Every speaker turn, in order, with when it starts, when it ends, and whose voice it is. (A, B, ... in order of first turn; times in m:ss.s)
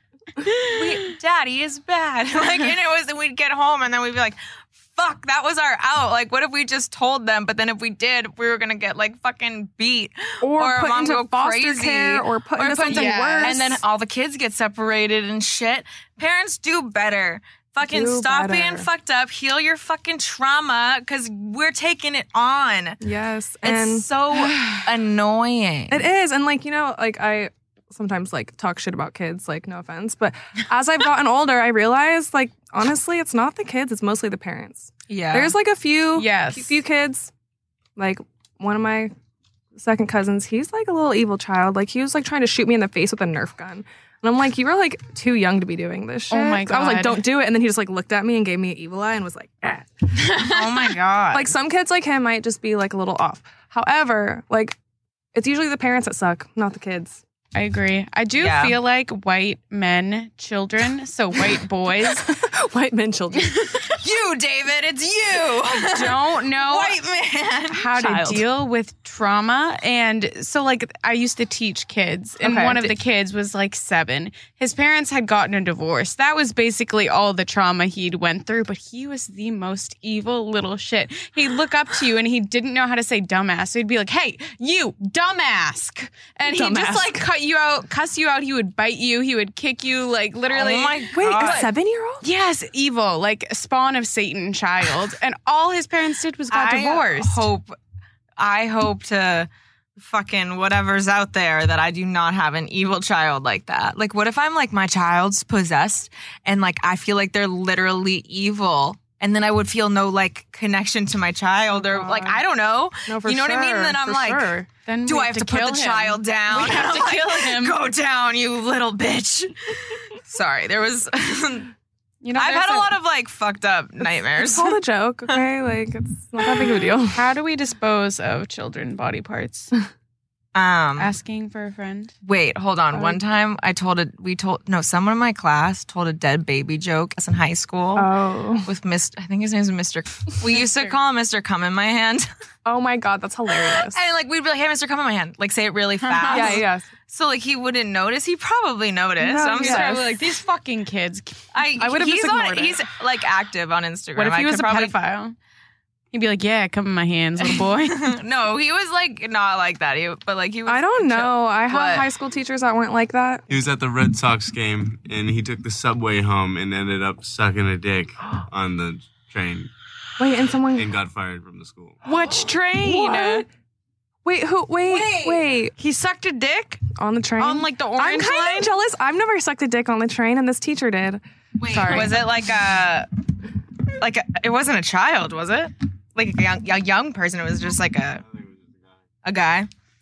0:00.6-0:23.0 A
0:10.4-0:13.8 B
0:12.9-0:13.6 C
0:17.9-0:18.9 B
0:23.0-0:24.7 B
0:23.6-0:26.0 A
0:25.9-0:37.3 B
0:35.1-0:35.5 A
0:36.2-0:36.8 C
0:38.0-0:39.1 B
0:39.8-0:49.9 B
0:46.3-0:47.2 C
0:50.3-0:50.6 C
0:50.4-0:51.5 A
0:51.3-0:54.8 B
0:55.3-0:57.2 B
0:57.5-1:02.3 C
0:58.4-0:58.8 A
1:02.0-1:03.7 B
1:03.4-1:03.8 C
1:03.9-1:07.8 A
1:05.8-1:07.0 C
1:07.7-1:31.7 C
1:07.9-1:08.5 B
1:12.4-1:12.9 B
1:26.5-1:27.2 B
1:30.5-1:31.7 A
1:31.2-1:32.2 B
1:32.2-1:37.5 C
1:36.5-1:37.8 A
1:38.4-1:54.5 A
1:51.7-1:52.4 B
1:53.1-1:54.7 B
1:54.9-1:57.8 C
1:55.1-2:01.7 A
2:02.2-2:02.9 C
2:02.4-2:04.8 A
2:04.4-2:07.2 B
2:07.1-2:09.7 C
2:10.6-2:11.1 A
2:11.0-2:12.1 C
2:12.2-2:18.1 A
2:12.9-2:13.2 B
2:18.0-2:18.7 B
2:18.6-2:22.3 A
2:20.5-2:20.9 C
2:22.6-2:24.0 B
2:23.5-2:30.2 A
2:26.0-2:26.6 C
2:26.3-2:26.9 B
2:29.2-2:30.2 B
2:29.5-2:31.5 C
2:31.5-2:35.0 A
2:31.8-2:32.8 B
2:34.2-2:35.4 C
2:36.1-2:38.2 C
2:37.5-2:42.1 A
2:40.7-2:43.5 B
2:43.5-2:49.7 D
2:50.2-2:50.9 B
2:50.7-2:52.0 D
2:52.1-2:53.4 C
2:52.8-2:53.5 B
2:54.2-2:55.7 B
2:54.9-2:55.5 A
2:55.8-2:56.2 C
2:56.1-2:56.8 A
2:57.0-3:02.2 B
2:57.4-2:58.7 C
3:01.6-3:03.1 A
3:04.0-3:08.2 A
3:08.3-3:08.6 D
3:09.2-3:09.7 A